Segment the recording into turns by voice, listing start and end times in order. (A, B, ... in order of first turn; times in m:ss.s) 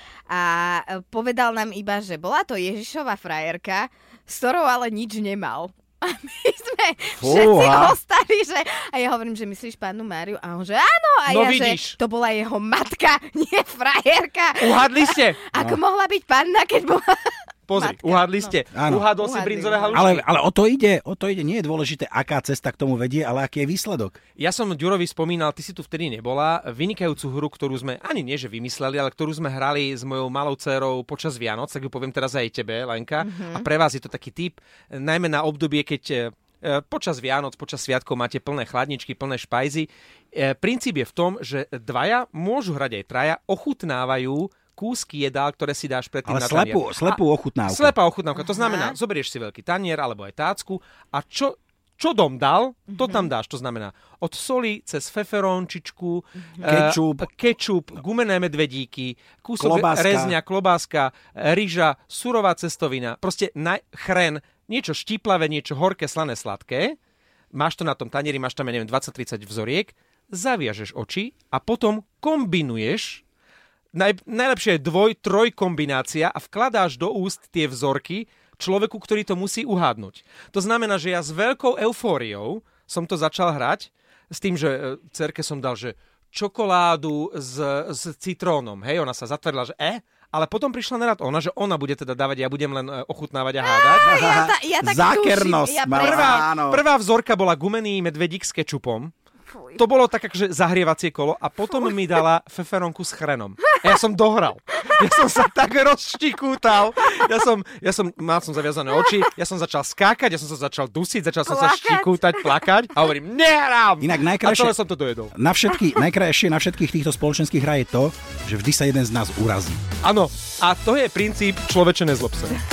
0:00.3-0:20.1 A
0:07.2-0:08.0 B
0:11.3-0:12.0 C
0:14.6-0:15.4 C
0:15.5-0:15.8 B
0:17.7-0:20.3 C
0:18.7-0:19.1 B
0:19.9-0:24.2 B
0:24.4-1:07.0 C
0:33.2-0:33.7 A
0:46.2-0:47.9 B
0:48.4-0:49.0 A
0:52.9-0:53.3 A
0:56.6-0:57.3 B
0:59.6-1:00.4 B
1:07.5-1:13.2 C
1:13.9-1:34.1 C
1:33.6-1:36.5 A
1:34.0-1:36.8 B
1:35.9-1:39.1 C
1:39.5-1:39.8 A
1:39.8-1:55.3 C
1:51.5-1:52.6 A
1:54.0-1:54.8 B
1:55.3-1:59.8 B
2:00.0-2:02.6 C